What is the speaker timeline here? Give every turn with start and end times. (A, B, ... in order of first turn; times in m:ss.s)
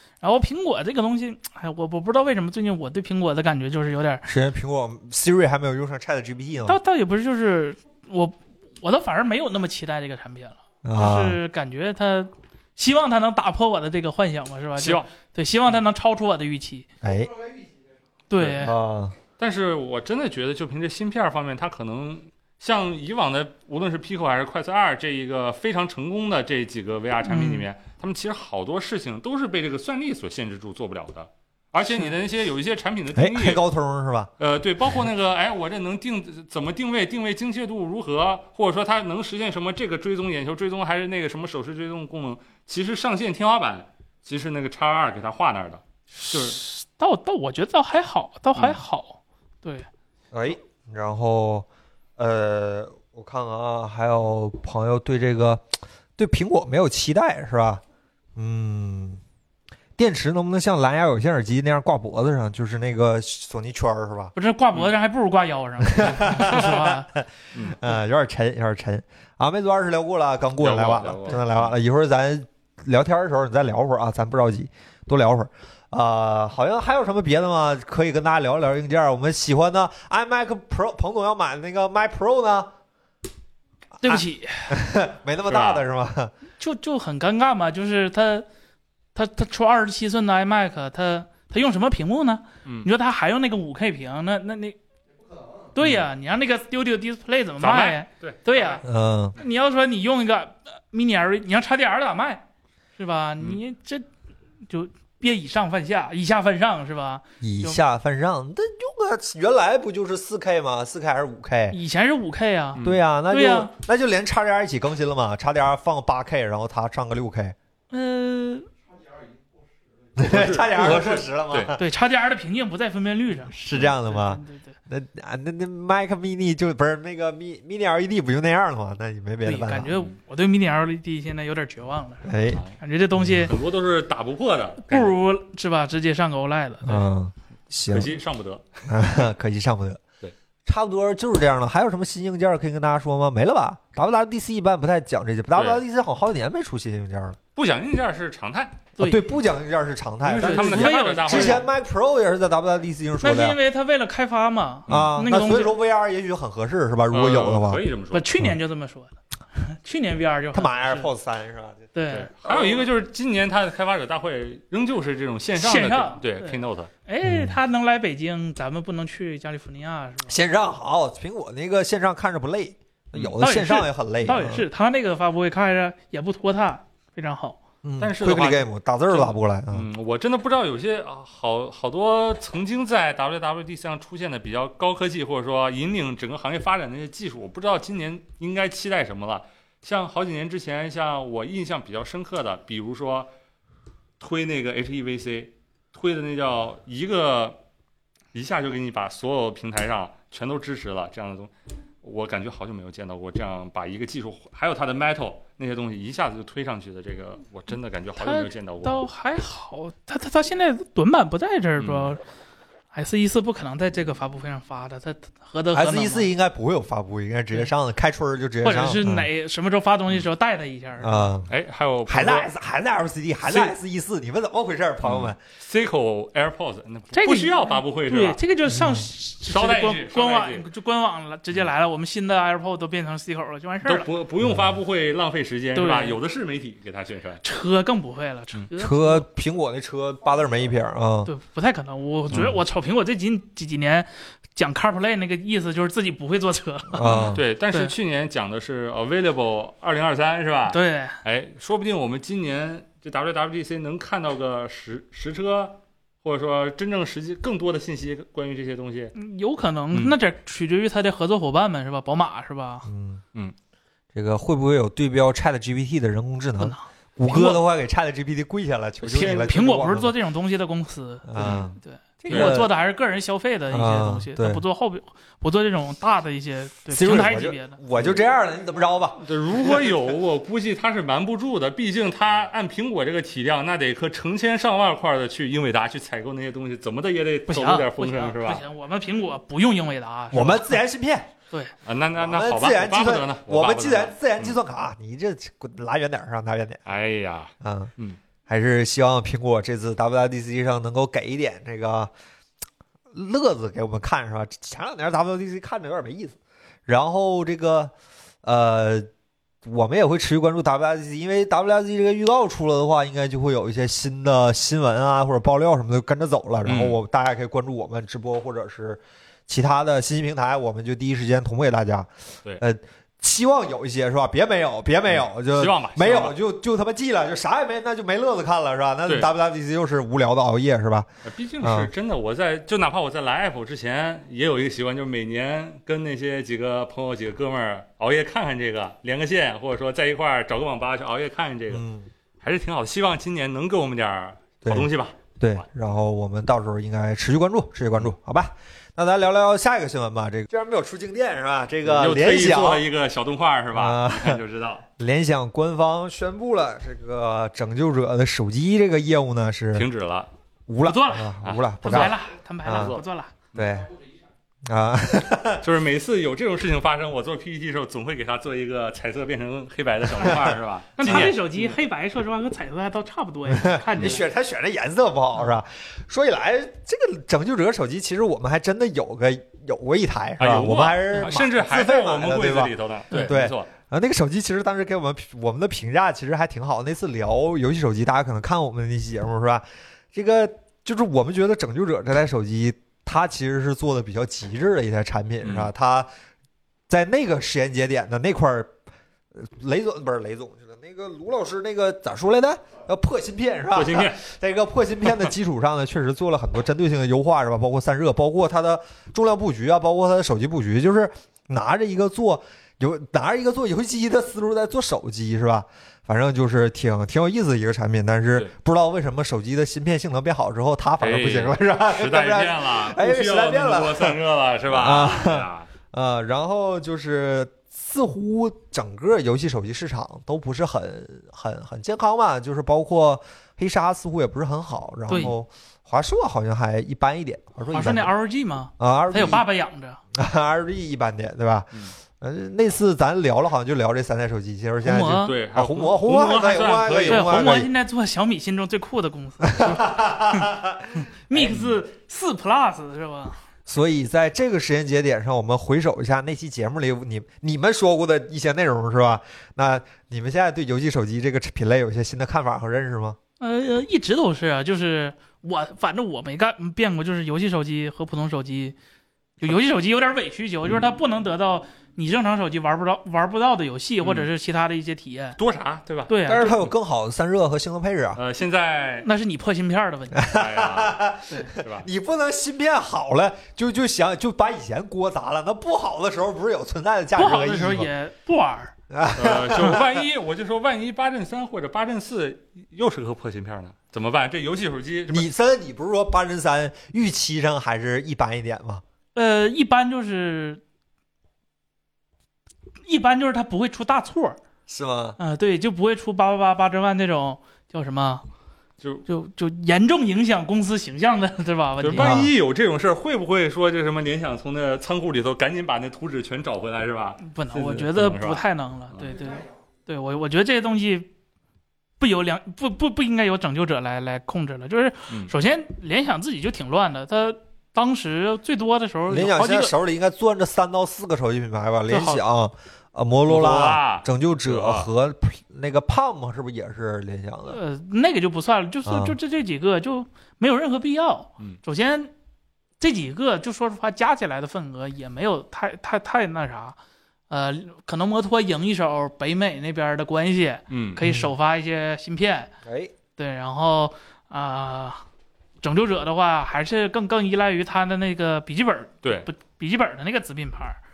0:00.2-0:04.3 A
0:04.2-0:06.8 B
0:06.6-0:16.9 A
0:10.8-0:11.4 B
0:14.8-0:15.1 C
0:17.0-0:17.4 B
0:18.3-0:18.7 A
0:18.4-0:19.1 B
0:19.4-0:33.6 C
0:27.2-0:27.6 A
0:33.1-0:34.3 B
0:34.4-0:46.6 C
0:46.1-0:49.9 A
0:48.6-0:48.8 C
0:50.3-0:55.6 B
0:56.2-0:57.8 B
0:58.4-0:59.2 B
1:00.0-1:04.3 B
1:04.3-1:07.1 A
1:05.8-1:22.7 B
1:06.4-1:06.8 C
1:10.6-1:11.7 C
1:24.0-1:24.8 A
1:24.0-1:26.3 B
1:25.5-1:25.8 C
1:26.6-1:28.4 A
1:29.1-1:34.8 A
1:35.7-1:38.8 A
1:37.6-1:38.8 C
1:38.8-1:39.4 B
1:39.4-1:42.4 A
1:43.0-1:44.0 A
1:44.7-1:47.8 A
1:47.4-1:51.8 B
1:51.7-1:53.7 A
1:52.8-1:53.0 C
1:52.8-1:57.5 B
1:57.9-1:58.7 A
2:00.2-2:01.8 B
2:00.2-2:01.8 C
2:01.8-2:04.7 A
2:03.5-2:09.9 B
2:09.4-2:13.5 A
2:12.2-2:12.6 B
2:12.5-2:12.8 C
2:13.2-2:13.5 B
2:13.3-2:15.1 C
2:14.8-2:17.0 A
2:16.8-2:18.1 B
2:17.9-2:19.2 C
2:18.9-2:20.0 B
2:20.6-2:27.4 B
2:25.5-2:25.8 C
2:27.6-2:28.9 C
2:29.0-2:29.2 A
2:29.0-2:33.6 B
2:30.2-2:31.7 C
2:30.4-2:31.6 A
2:33.2-2:35.7 A
2:34.9-2:37.8 B
2:37.1-2:38.3 C
2:38.1-2:41.1 A
2:40.5-2:41.9 B
2:41.9-2:42.3 A
2:42.1-2:46.9 C
2:42.4-2:42.8 B
2:45.6-2:50.4 A
2:47.2-2:47.6 B
2:50.3-2:54.6 B
2:53.4-2:57.6 A
2:57.8-2:59.9 B
2:58.0-3:13.3 C
3:14.2-3:17.6 C
3:18.3-3:21.5 C
3:22.0-3:29.0 C
3:28.2-3:32.2 A
3:31.8-3:32.1 C
3:32.9-3:36.3 A
3:35.7-3:39.3 B
3:38.6-3:41.3 A
3:41.0-3:41.5 B
3:41.5-3:42.5 C
3:42.1-3:45.4 B
3:45.0-3:48.4 C
3:47.1-3:54.1 A
3:48.7-3:49.1 B
3:49.5-3:50.6 C
3:53.8-3:57.4 C
3:55.7-3:56.2 A
3:57.4-3:59.2 A
3:58.7-4:01.3 B
4:01.2-4:07.9 A
4:06.9-4:07.4 B
4:07.0-4:19.1 C
4:10.7-4:11.2 A
4:19.1-4:22.9 A
4:22.9-4:23.2 B
4:24.1-4:30.1 B
4:26.6-4:27.6 A
4:29.0-4:37.8 A
4:31.2-4:32.7 B
4:31.4-4:31.7 C
4:32.3-4:32.6 C
4:33.7-4:34.6 B
4:36.9-4:39.2 B
4:38.0-4:38.2 C
4:39.2-4:48.6 C
4:47.5-4:50.8 A
4:50.3-4:51.3 B
4:51.8-4:54.6 C
4:52.2-4:56.8 B
4:56.9-4:58.2 C
4:57.6-4:57.9 B
4:58.5-5:02.1 B
5:03.1-5:07.9 B
5:08.4-5:09.1 B
5:09.6-5:31.1 B
5:16.6-5:17.0 C
5:25.1-5:26.4 C
5:29.1-5:29.3 C
5:31.2-5:41.8 C
5:31.6-5:31.9 B
5:41.7-5:42.1 B
5:42.4-5:45.2 C
5:44.6-5:52.8 B
5:51.8-5:54.8 C
5:53.7-5:54.4 B
5:55.0-5:59.9 B
5:59.7-6:00.3 C
6:00.7-6:02.1 B
6:00.8-6:03.3 A
6:01.4-6:02.2 C
6:02.6-6:03.0 B
6:02.7-6:03.7 C
6:03.5-6:03.9 B
6:04.7-6:05.6 B
6:05.6-6:11.8 C
6:10.1-6:11.3 B
6:11.0-6:14.2 A
6:13.5-6:36.1 B
6:20.4-6:23.7 C
6:35.4-6:35.7 C
6:36.9-6:38.7 B
6:39.4-7:18.1 B
6:43.7-6:44.2 C
7:01.0-7:05.7 C
7:15.1-7:15.3 A
7:17.7-7:20.0 A
7:18.8-7:19.4 B
7:20.1-7:27.7 B
7:24.8-7:25.4 A
7:25.2-7:27.6 C
7:27.1-7:33.4 A
7:29.4-7:31.5 B
7:31.5-7:31.7 C
7:33.7-7:43.2 B
7:43.4-7:48.8 A
7:49.4-7:55.4 A
7:54.0-7:54.3 C
7:55.4-7:56.7 C
7:56.1-7:56.5 A
7:56.3-7:58.2 B
7:58.2-7:59.1 C
7:59.0-8:00.3 A
8:00.2-8:07.9 B
8:00.3-8:01.0 C
8:01.6-8:01.8 C
8:07.2-8:08.7 A
8:08.9-8:09.9 B
8:09.1-8:15.3 C
8:15.1-8:18.8 B
8:19.1-8:20.6 A
8:22.8-8:24.4 A
8:24.7-8:25.2 B
8:25.2-8:28.2 A
8:29.1-8:32.1 A
8:31.8-8:39.2 C
8:31.9-8:32.3 B
8:37.2-8:41.1 A
8:42.0-8:49.7 A
8:49.1-8:57.6 B
8:51.9-8:52.2 A
8:53.2-8:54.9 C
8:57.5-9:02.1 A
8:58.8-8:59.2 B
9:02.8-9:06.8 A
9:07.3-9:12.5 A
9:10.7-9:11.0 C
9:11.0-9:11.3 B
9:12.6-9:12.9 B
9:13.2-9:15.0 A
9:15.6-9:20.8 A